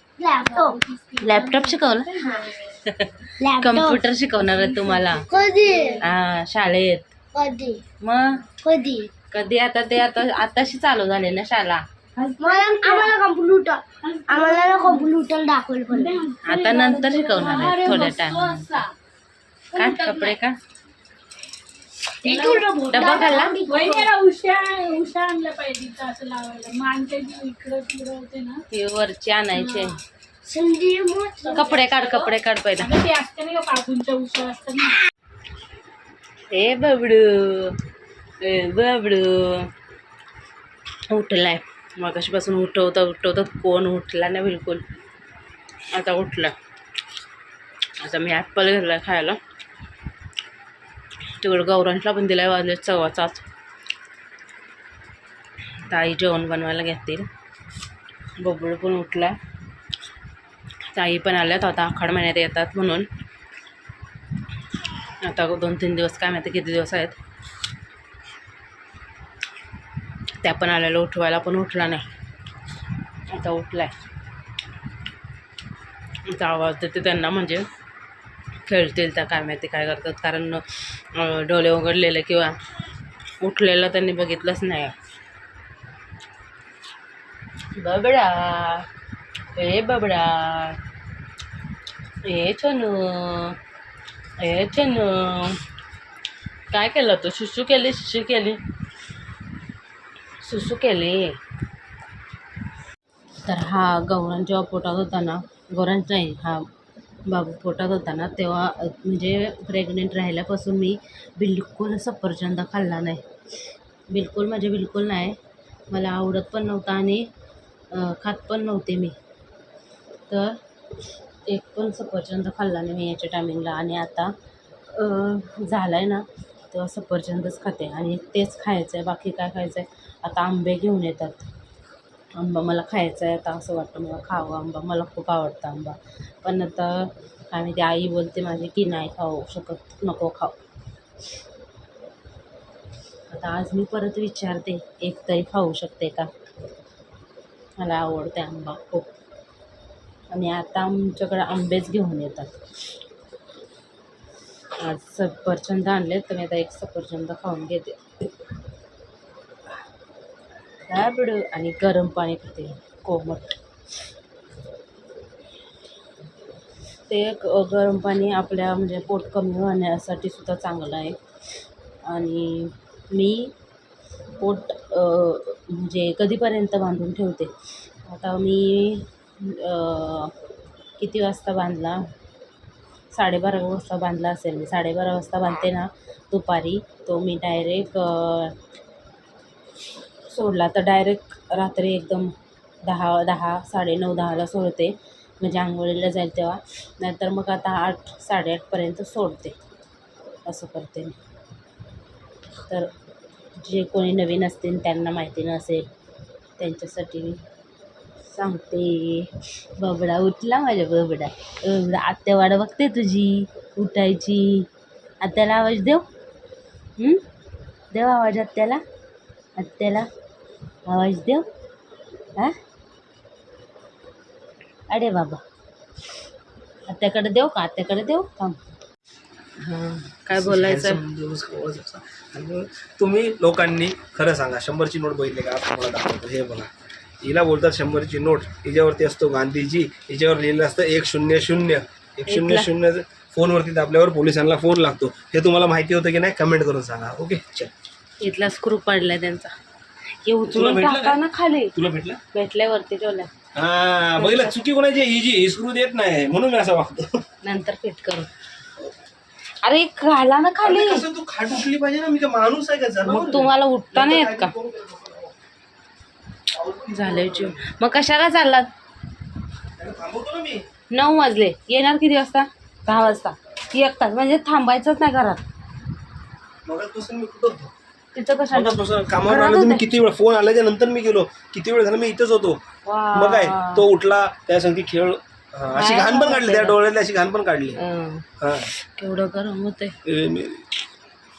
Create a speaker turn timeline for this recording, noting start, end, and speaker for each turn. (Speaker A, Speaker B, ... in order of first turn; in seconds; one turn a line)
Speaker A: 0.2-0.8
Speaker B: 0.3-2.6
Speaker C: 1.2-5.2
Speaker A: 3.4-4.0
Speaker B: 4.4-6.0
Speaker A: 5.3-6.0
Speaker C: 6.0-7.1
Speaker A: 7.3-7.8
Speaker C: 8.0-8.4
Speaker A: 8.6-9.1
Speaker C: 9.3-11.8
Speaker B: 12.2-13.1
Speaker A: 12.4-16.3
Speaker B: 14.0-15.1
Speaker B: 15.9-18.9
Speaker C: 16.4-18.6
Speaker C: 19.7-20.6
Speaker A: 22.2-24.1
Speaker B: 22.2-28.6
Speaker C: 22.9-23.5
Speaker C: 28.7-30.0
Speaker B: 29.5-30.0
Speaker A: 30.4-31.7
Speaker B: 31.4-35.0
Speaker C: 31.5-32.9
Speaker C: 36.5-37.8
Speaker C: 38.4-39.7
Speaker C: 41.1-44.8
Speaker C: 45.9-46.5
Speaker C: 48.0-49.4
Speaker C: 51.4-53.5
Speaker C: 55.9-57.3
Speaker C: 58.4-59.4
Speaker C: 60.9-63.1
Speaker C: 65.2-67.2
Speaker C: 70.4-72.1
Speaker C: 73.3-73.9
Speaker C: 76.2-77.7
Speaker C: 78.7-82.6
Speaker C: 83.4-84.9
Speaker C: 87.7-88.9
Speaker C: 89.5-90.8
Speaker C: 92.2-93.6
Speaker C: 94.4-95.6
Speaker C: 96.7-98.6
Speaker C: 100.4-101.4
Speaker C: 103.4-106.7
Speaker C: 107.3-113.2
Speaker C: 114.1-115.4
Speaker C: 115.9-117.3
Speaker C: 117.9-119.2
Speaker C: 120.3-120.6
Speaker C: 121.5-124.3
Speaker C: 124.9-131.5
Speaker C: 132.3-140.6
Speaker C: 143.3-146.3
Speaker C: 147.8-149.1
Speaker C: 150.3-152.5
Speaker C: 154.8-158.0
Speaker C: 160.9-163.6
Speaker C: 167.1-171.2
Speaker C: 172.0-173.5
Speaker C: 174.4-177.5
Speaker C: 178.0-180.3
Speaker C: 181.0-182.0
Speaker C: 183.1-188.5
Speaker C: 190.3-199.6
Speaker C: 200.4-201.1
Speaker C: 203.6-205.9
Speaker C: 206.6-207.4
Speaker C: 208.2-214.7
Speaker C: 215.2-216.1
Speaker C: 217.0-217.2
Speaker C: 217.9-218.8
Speaker C: 219.6-220.1
Speaker C: 220.8-221.4
Speaker C: 224.9-225.4
Speaker C: 226.8-228.6
Speaker C: 229.6-231.0
Speaker D: 230.3-236.7
Speaker D: 237.2-247.7
Speaker C: 242.3-242.7
Speaker C: 248.2-249.5
Speaker C: 250.2-251.7
Speaker D: 250.5-251.2
Speaker D: 251.7-252.2
Speaker C: 252.3-253.3
Speaker D: 253.5-257.2
Speaker C: 254.2-254.6
Speaker C: 257.4-258.3
Speaker C: 259.6-261.0
Speaker D: 260.6-265.3
Speaker C: 263.0-264.5
Speaker D: 266.5-267.6
Speaker C: 266.9-268.7
Speaker D: 269.8-270.6
Speaker C: 270.9-275.4
Speaker D: 276.6-277.7
Speaker C: 278.1-279.9
Speaker D: 278.5-282.6
Speaker C: 282.8-283.9
Speaker D: 283.1-287.8
Speaker C: 285.7-286.8
Speaker C: 287.7-289.9
Speaker D: 288.4-288.7
Speaker D: 290.0-290.7